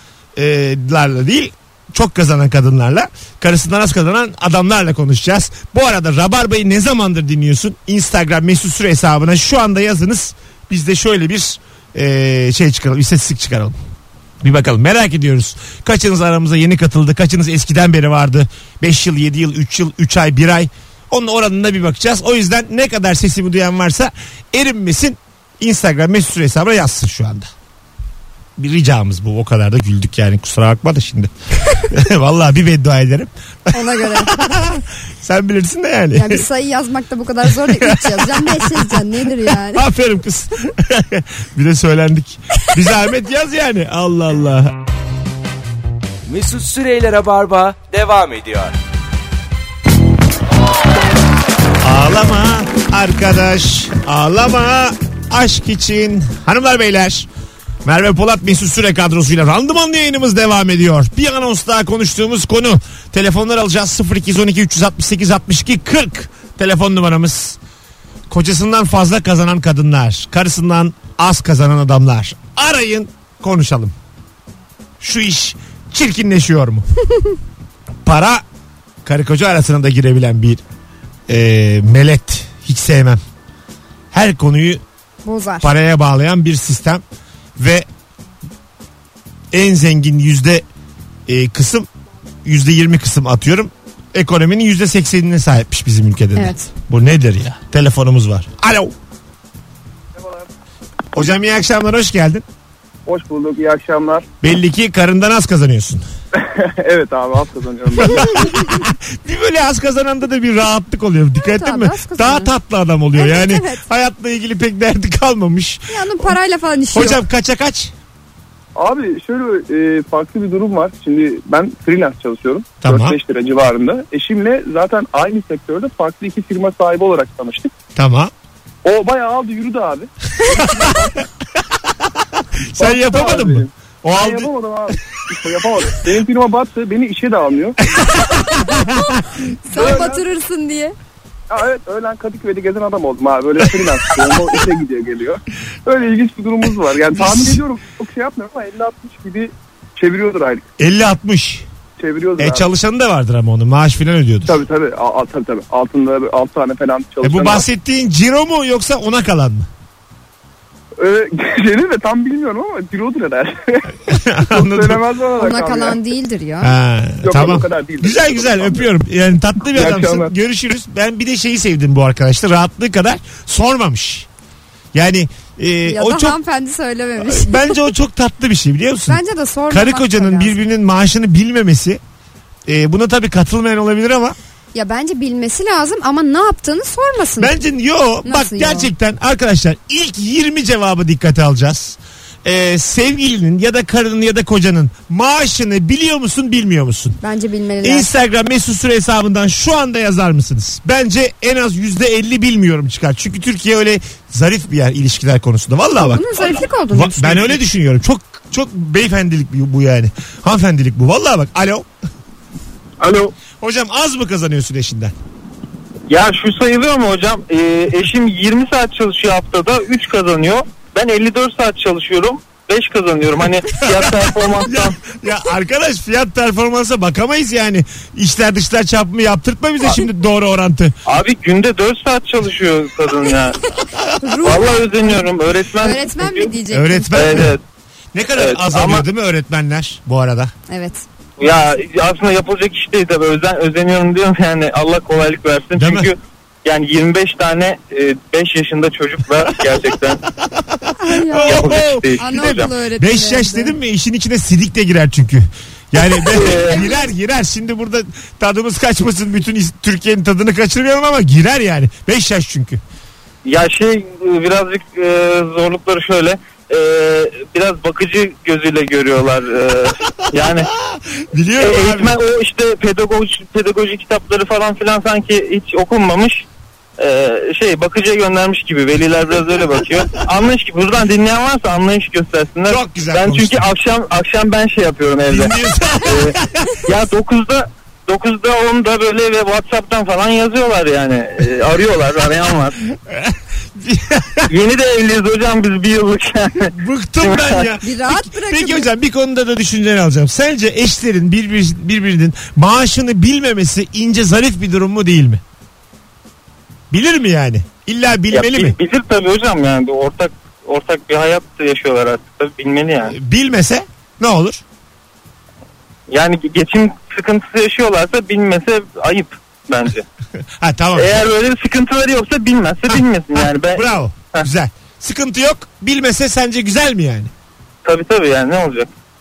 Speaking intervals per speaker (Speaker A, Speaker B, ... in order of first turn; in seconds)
Speaker A: 0.4-13.8, 14.4-27.5, 28.6-31.3, 31.9-36.4, 37.5-44.8, 51.8-57.3, 57.9-67.6, 68.3-73.9, 75.0-76.9, 78.0-78.4, 79.0-80.6, 81.3-83.2, 84.1-84.8, 85.6-87.0, 87.6-87.9, 89.5-90.7, 91.3-91.9, 92.5-98.9, 101.1-102.5, 104.4-106.0, 108.0-116.3, 116.9-117.9, 122.8-123.2, 128.0-128.3, 132.7-134.5, 138.6-138.9, 147.2-147.6, 150.8-151.7, 152.4-154.6, 157.2-159.7, 164.1-165.0, 166.6-174.3, 174.9-176.4, 177.2-182.0, 182.7-184.4, 187.4-197.2, 197.8-211.9, 213.6-215.1, 223.8-231.0, 236.7-237.6, 238.1-240.5, 245.8-246.1, 250.6-262.8, 270.8-272.2, 282.7-283.7, 285.3-286.7, 293.1-294.5, 296.7-305.4, 306.9-308.8, 313.1-314.6, 320.6-321.3, 323.6-327.3
Speaker B: 33.7-34.4, 36.1-39.8, 85.2-85.7, 96.4-96.7, 111.4-112.5, 113.1-113.8, 115.9-117.2, 138.7-139.0, 139.7-140.9, 165.4-166.7, 175.9-177.8, 179.1-180.5, 184.7-187.5, 188.2-188.9, 197.2-198.1, 206.0-207.6, 234.2-235.2, 235.8-237.5, 240.7-241.0, 251.0-253.7, 256.6-257.1, 297.8-298.9
Speaker C: 46.3-48.8
Speaker D: 100.2-100.5, 103.1-104.2, 106.4-108.5, 118.8-127.7, 128.8-131.2, 132.8-137.8, 139.7-140.2, 141.5-150.7, 152.0-152.7, 154.5-157.6, 161.0-166.0, 167.2-168.9, 169.7-170.3
Speaker E: 216.1-225.0, 231.1-233.6, 234.4-236.5, 237.1-237.6, 238.4-239.0, 241.4-250.2, 251.5-252.7, 256.3-256.8, 263.4-270.7, 271.6-276.4, 277.0-292.8, 294.5-297.7, 308.3-313.1, 316.1-320.1, 320.9-324.5, 327.9-328.9